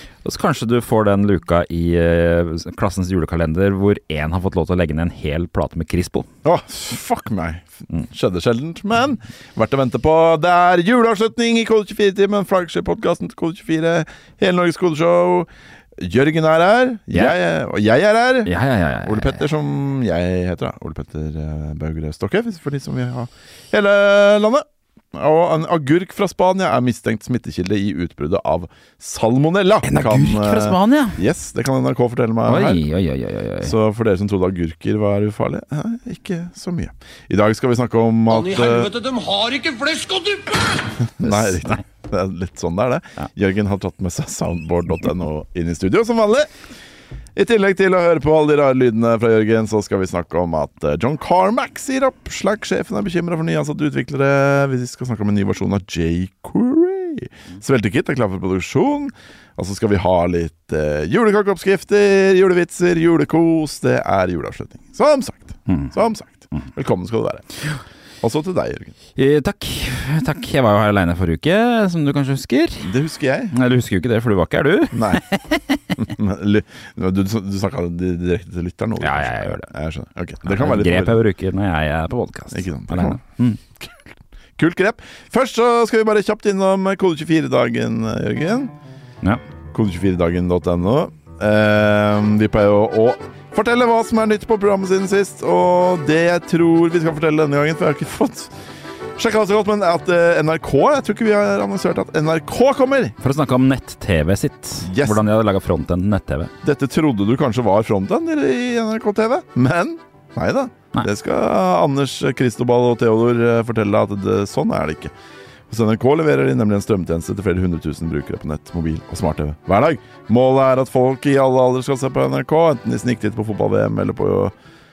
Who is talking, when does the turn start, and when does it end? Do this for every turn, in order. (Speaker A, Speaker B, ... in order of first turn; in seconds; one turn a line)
Speaker A: 0.2-6.3
Speaker B: 6.4-32.9
Speaker A: 18.4-19.4
Speaker A: 29.8-31.2
Speaker A: 32.5-33.7
Speaker B: 33.6-39.0
Speaker C: 38.3-40.9
Speaker B: 41.2-46.5
Speaker A: 41.2-41.8
Speaker B: 47.4-67.5
Speaker A: 65.7-65.9
Speaker B: 68.2-69.0
Speaker A: 69.2-72.9
Speaker B: 72.8-73.5
Speaker A: 73.5-75.9
Speaker B: 74.9-75.2
Speaker B: 76.0-81.2
Speaker A: 79.0-79.7
Speaker A: 80.5-83.6
Speaker B: 82.5-83.2
Speaker B: 83.8-88.7
Speaker B: 89.7-98.5
Speaker B: 99.2-103.2
Speaker A: 103.2-106.5
Speaker B: 104.8-105.2
Speaker B: 106.6-115.1
Speaker B: 115.7-124.5